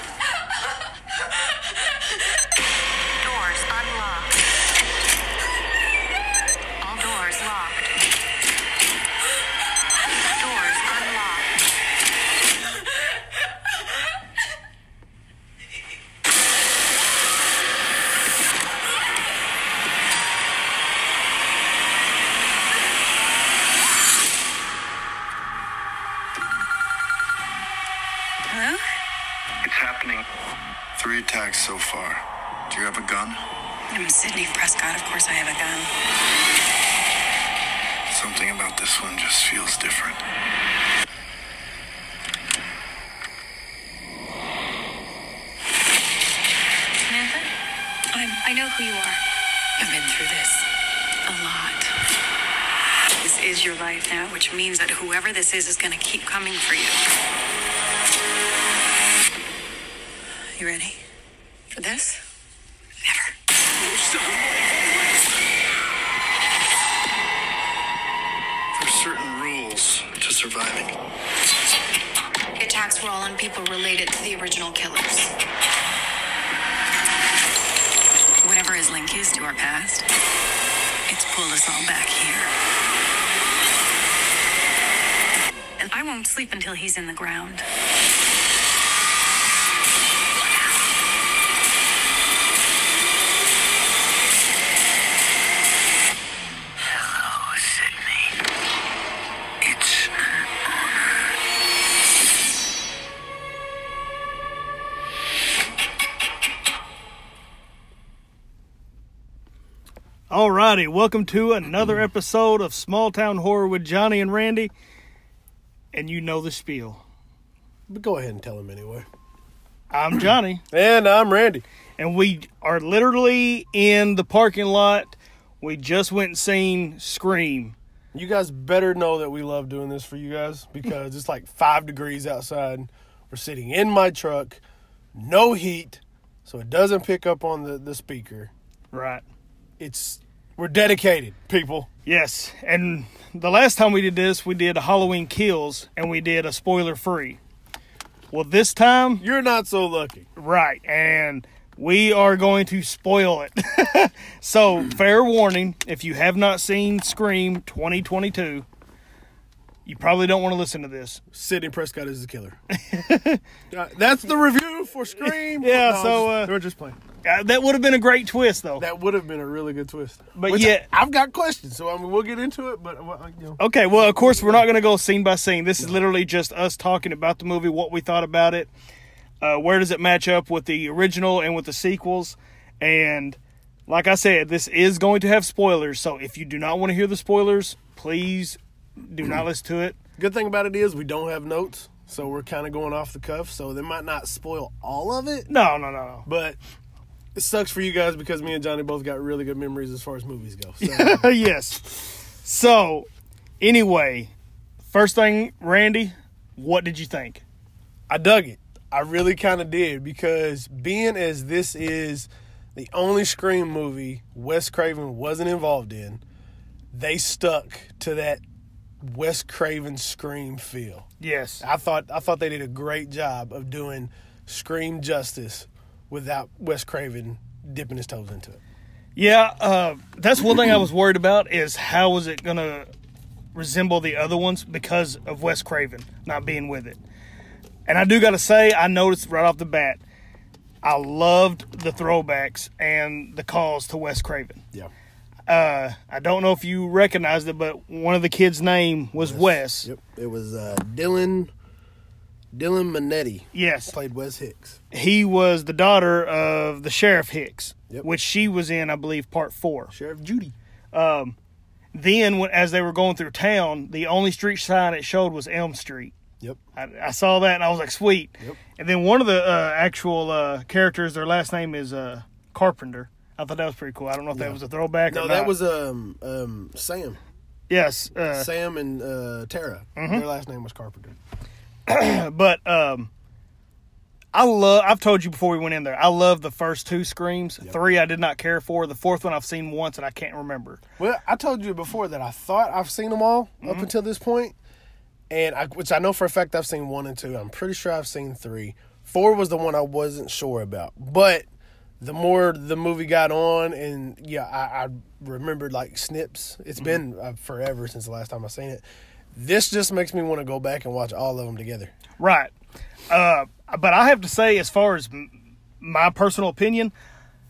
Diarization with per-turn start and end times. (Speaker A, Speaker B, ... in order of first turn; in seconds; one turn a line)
Speaker A: 3.2-4.4
Speaker A: 6.8-7.9
Speaker A: 10.3-11.5
Speaker A: 28.4-28.8
Speaker B: 29.6-30.3
Speaker B: 31.0-33.4
Speaker A: 33.9-35.9
Speaker B: 38.1-40.2
Speaker A: 47.0-47.5
Speaker A: 48.1-49.2
Speaker A: 49.8-50.7
Speaker A: 51.3-51.9
Speaker A: 53.2-57.0
Speaker A: 60.5-61.0
Speaker A: 61.7-62.2
Speaker A: 63.0-63.3
Speaker B: 63.8-65.4
Speaker B: 68.7-70.9
Speaker A: 72.6-75.3
Speaker A: 78.4-80.1
Speaker A: 81.1-82.5
Speaker A: 85.8-87.7
Speaker B: 96.8-98.4
Speaker B: 99.6-100.3
Speaker C: 110.3-114.7
Speaker C: 115.9-117.0
Speaker D: 117.9-119.1
Speaker C: 119.9-120.6
Speaker D: 120.7-121.6
Speaker C: 122.0-127.8
Speaker D: 128.1-134.6
Speaker D: 135.1-138.5
Speaker C: 138.9-139.2
Speaker D: 139.8-141.9
Speaker C: 142.1-147.4
Speaker C: 148.3-149.2
Speaker D: 149.2-150.3
Speaker C: 150.4-158.7
Speaker C: 159.9-161.2
Speaker D: 161.3-162.6
Speaker C: 162.7-163.4
Speaker D: 163.7-167.0
Speaker C: 165.2-166.5
Speaker C: 167.2-168.9
Speaker D: 168.8-174.6
Speaker C: 170.3-170.9
Speaker C: 173.6-178.7
Speaker C: 179.4-190.0
Speaker D: 190.2-195.5
Speaker C: 195.5-196.3
Speaker D: 196.2-196.6
Speaker D: 197.3-201.3
Speaker C: 200.8-203.1
Speaker C: 203.6-204.3
Speaker C: 204.9-207.4
Speaker D: 208.1-216.2
Speaker D: 216.9-218.4
Speaker D: 219.0-221.1
Speaker C: 221.2-221.6
Speaker D: 221.6-228.6
Speaker C: 229.2-232.9
Speaker C: 233.5-237.0
Speaker C: 237.9-240.0
Speaker C: 240.8-244.6
Speaker C: 245.5-249.9
Speaker D: 249.2-251.5
Speaker D: 252.5-254.8
Speaker C: 253.5-253.9
Speaker C: 254.9-259.9
Speaker D: 259.9-260.5
Speaker C: 260.9-261.4
Speaker C: 261.9-266.1
Speaker C: 266.8-275.5
Speaker D: 274.3-277.2
Speaker C: 277.7-278.5
Speaker D: 278.4-281.2
Speaker C: 280.0-280.3
Speaker C: 281.9-283.1
Speaker C: 284.3-290.8
Speaker D: 291.0-294.6
Speaker C: 293.6-293.9
Speaker D: 295.3-301.5
Speaker D: 302.0-311.9
Speaker C: 312.2-312.5
Speaker C: 313.1-316.9